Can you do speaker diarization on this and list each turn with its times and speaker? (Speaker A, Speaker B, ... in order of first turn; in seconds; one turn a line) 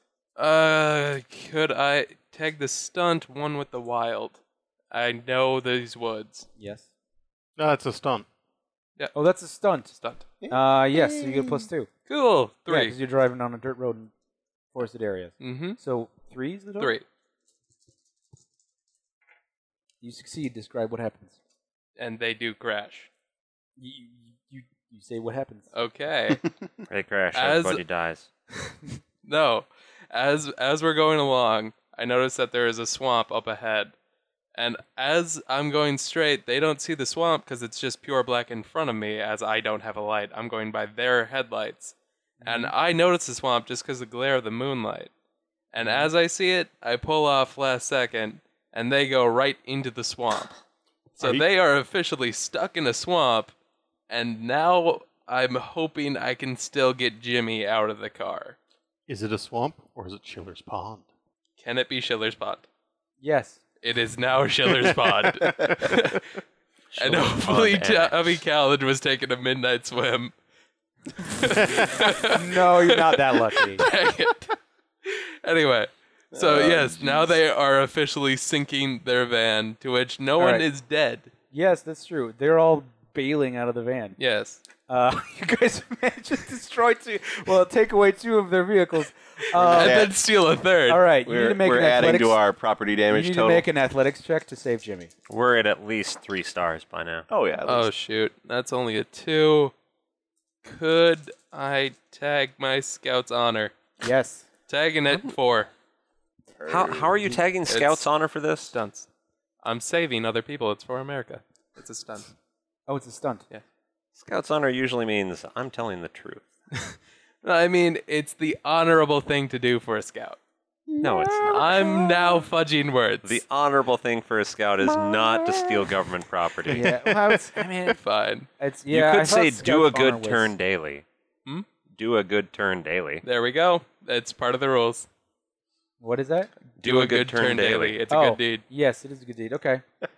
Speaker A: 0.4-6.5
Speaker B: 6.6-6.9
Speaker C: 7.6-8.3
Speaker B: 9.1-9.9
Speaker A: 10.0-10.3
Speaker D: 10.4-11.7
Speaker B: 10.5-11.9
Speaker A: 12.1-12.9
Speaker B: 12.7-14.1
Speaker B: 14.7-17.0
Speaker A: 15.4-15.8
Speaker A: 16.8-17.1
Speaker B: 20.0-21.4
Speaker A: 22.0-23.1
Speaker B: 23.8-25.7
Speaker A: 25.7-26.4
Speaker E: 26.9-28.3
Speaker A: 27.3-27.8
Speaker A: 29.2-33.9
Speaker A: 34.5-45.1
Speaker B: 42.4-42.7
Speaker A: 45.7-50.5
Speaker B: 45.8-46.1
Speaker A: 51.2-53.5
Speaker C: 51.2-51.5
Speaker A: 54.1-58.6
Speaker C: 59.1-61.1
Speaker A: 61.6-62.7
Speaker B: 63.2-63.6
Speaker A: 63.8-66.3
Speaker D: 65.6-65.9
Speaker E: 66.9-68.4
Speaker A: 67.0-70.3
Speaker A: 71.2-81.3
Speaker B: 72.0-73.8
Speaker D: 76.3-77.3
Speaker B: 80.4-80.7
Speaker B: 81.5-84.2
Speaker A: 84.2-84.6
Speaker B: 84.9-90.1
Speaker D: 89.5-90.1
Speaker A: 89.7-91.0
Speaker B: 90.9-92.4
Speaker D: 91.2-93.7
Speaker B: 93.1-95.1
Speaker E: 95.3-97.3
Speaker D: 97.3-97.9
Speaker A: 97.7-99.7
Speaker A: 100.6-103.8
Speaker B: 104.0-104.5
Speaker A: 104.7-105.7
Speaker D: 106.6-107.3
Speaker E: 106.7-108.8
Speaker A: 107.7-108.0
Speaker A: 108.7-109.1
Speaker A: 109.6-112.3
Speaker B: 112.9-113.5
Speaker E: 114.2-116.5
Speaker A: 116.7-120.4
Speaker D: 120.9-122.2
Speaker E: 121.0-122.0
Speaker A: 121.5-123.4
Speaker E: 123.2-127.0
Speaker D: 124.9-125.8
Speaker B: 126.7-128.0
Speaker A: 127.9-128.5
Speaker B: 128.6-130.5
Speaker E: 128.9-131.1
Speaker E: 131.9-133.2
Speaker A: 133.2-135.1
Speaker B: 136.0-136.5
Speaker A: 136.8-138.6
Speaker E: 136.8-138.0
Speaker B: 138.1-139.8